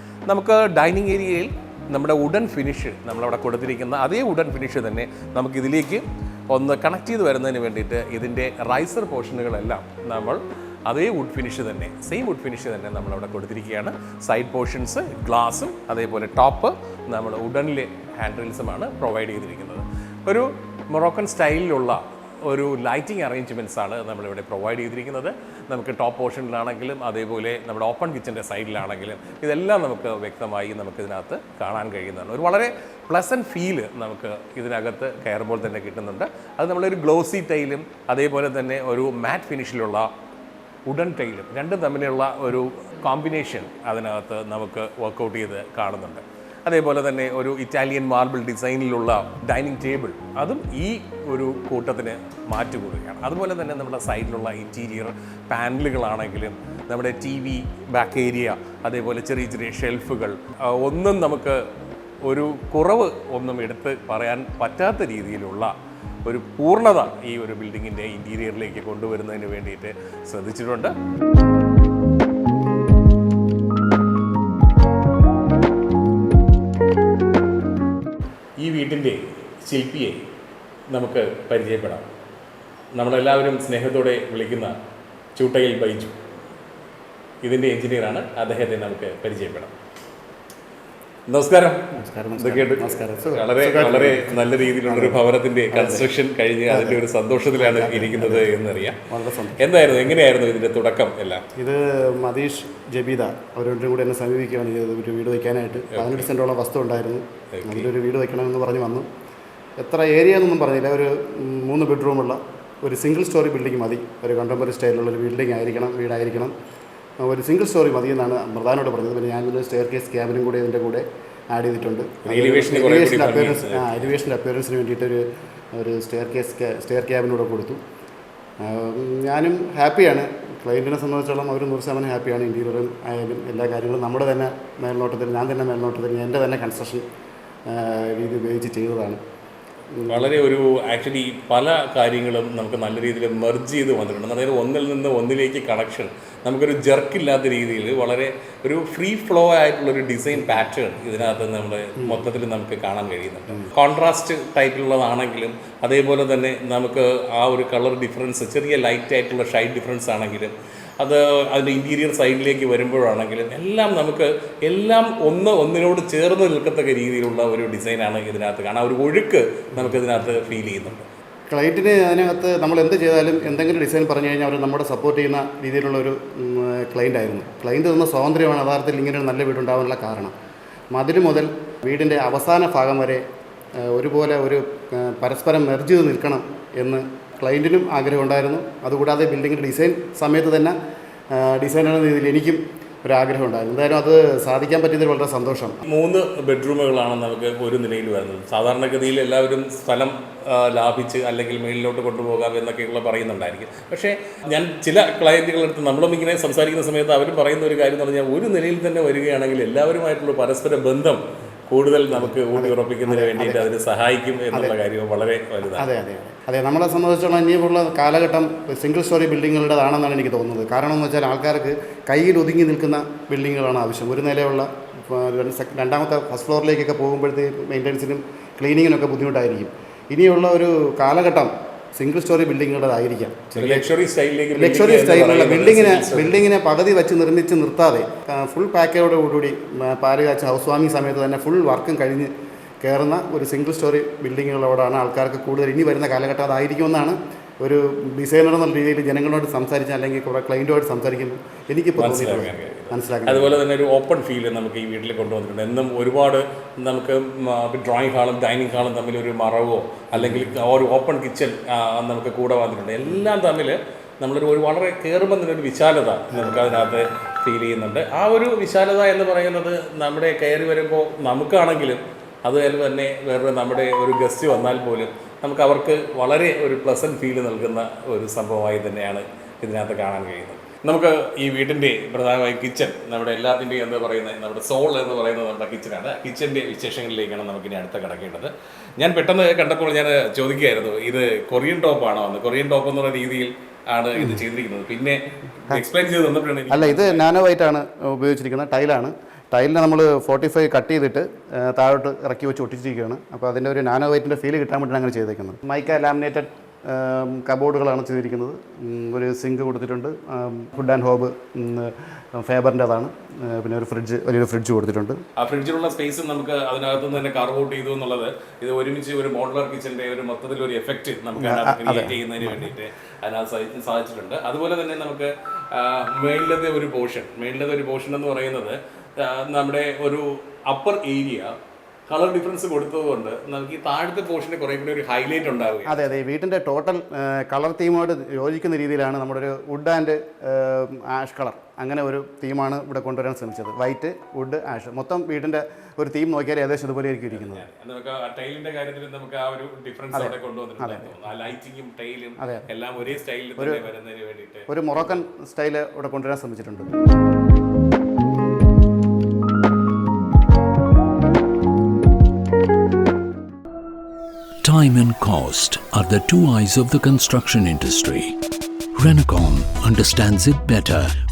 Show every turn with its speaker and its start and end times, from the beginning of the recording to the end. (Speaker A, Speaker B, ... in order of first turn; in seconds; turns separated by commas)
Speaker A: 0.3-40.1, Speaker A: 40.9-61.6, Speaker A: 62.2-65.7, Speaker A: 66.2-70.9, Speaker A: 78.6-80.3, Speaker A: 80.9-82.1, Speaker A: 83.0-84.8, Speaker A: 85.4-86.2, Speaker A: 87.4-89.7, Speaker A: 91.3-99.0, Speaker B: 91.9-96.1, Speaker B: 96.7-97.0, Speaker B: 97.5-98.5, Speaker B: 99.1-99.6, Speaker A: 99.6-101.5, Speaker B: 101.6-109.1, Speaker A: 105.9-106.3, Speaker A: 107.5-107.9, Speaker B: 109.8-116.5, Speaker B: 117.2-125.2, Speaker A: 122.2-124.1, Speaker B: 125.8-127.8, Speaker B: 128.6-137.1, Speaker B: 137.7-139.2, Speaker B: 139.9-140.3, Speaker A: 140.1-171.1, Speaker B: 171.5-180.3, Speaker B: 180.9-183.2, Speaker B: 183.8-190.8, Speaker B: 191.3-195.8, Speaker A: 195.9-215.9, Speaker B: 212.1-213.7, Speaker B: 215.7-233.9, Speaker A: 233.5-236.4, Speaker B: 234.5-242.3, Speaker B: 242.8-253.6, Speaker A: 252.0-297.3, Speaker B: 260.1-260.5, Speaker B: 266.4-266.8, Speaker B: 294.2-294.4, Speaker B: 296.7-315.2, Speaker A: 315.4-331.5, Speaker B: 321.4-322.7, Speaker A: 332.1-336.0, Speaker B: 335.9-347.7, Speaker A: 347.3-355.2, Speaker B: 350.1-351.1, Speaker B: 352.4-352.7, Speaker B: 353.6-353.8, Speaker B: 354.7-356.9, Speaker C: 364.6-368.4, Speaker C: 369.0-371.1